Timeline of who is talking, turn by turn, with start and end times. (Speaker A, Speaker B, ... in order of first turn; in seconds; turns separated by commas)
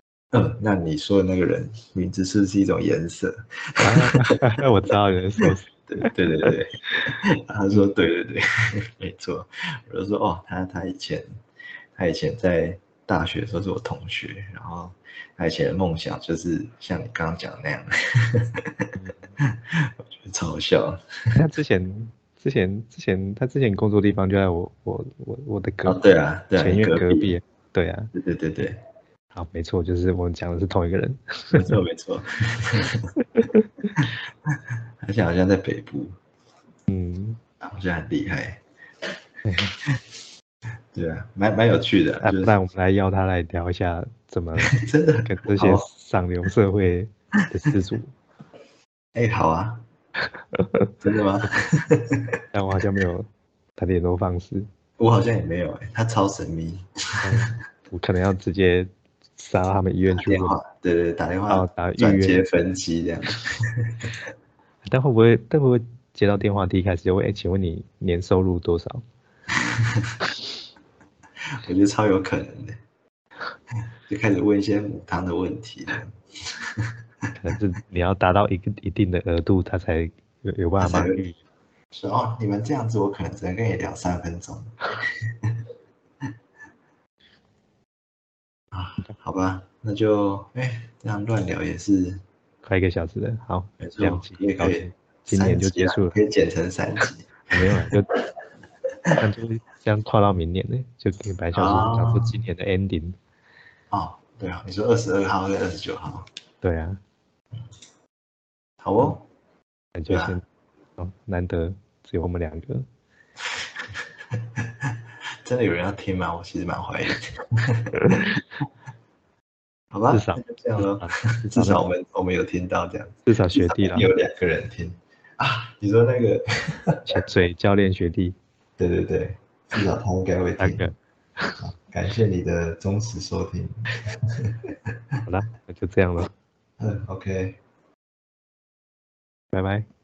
Speaker A: 0.3-4.3, Speaker B: 3.8-7.0, Speaker A: 5.9-11.2, Speaker A: 11.9-21.0, Speaker B: 21.3-26.0, Speaker A: 25.9-27.3, Speaker B: 26.6-28.1, Speaker A: 28.1-28.8, Speaker B: 29.3-31.8, Speaker A: 31.5-33.1, Speaker B: 33.2-34.0, Speaker A: 34.0-36.1, Speaker B: 36.9-37.4, Speaker A: 37.6-38.6, Speaker B: 39.5-39.7, Speaker A: 40.9-42.5, Speaker B: 42.2-48.1, Speaker A: 44.7-45.9, Speaker A: 49.1-49.8, Speaker B: 50.5-50.9, Speaker A: 51.0-52.4, Speaker B: 52.5-53.3, Speaker B: 53.8-54.7, Speaker A: 55.0-57.5, Speaker B: 57.2-60.5, Speaker A: 60.1-64.1, Speaker B: 61.5-62.4, Speaker B: 64.8-69.0, Speaker A: 69.7-70.1, Speaker A: 71.6-72.8, Speaker A: 74.1-76.9, Speaker B: 77.3-81.4, Speaker A: 80.8-81.2, Speaker A: 81.9-85.5, Speaker A: 88.7-92.2, Speaker B: 92.6-96.2, Speaker A: 93.8-97.7, Speaker B: 97.5-98.1, Speaker B: 99.2-103.2, Speaker A: 101.5-102.4, Speaker A: 103.9-106.3, Speaker B: 106.6-107.0, Speaker A: 108.8-109.2, Speaker B: 110.0-110.4, Speaker A: 110.1-110.4, Speaker B: 111.0-112.8, Speaker A: 114.0-114.9, Speaker A: 115.4-118.2, Speaker B: 118.0-118.4, Speaker A: 119.9-127.1, Speaker B: 120.1-121.8, Speaker B: 123.2-124.1, Speaker B: 127.1-128.4, Speaker A: 128.8-130.8, Speaker B: 130.6-131.6, Speaker A: 131.6-135.2, Speaker B: 135.2-136.3, Speaker A: 136.8-137.6, Speaker B: 139.5-139.8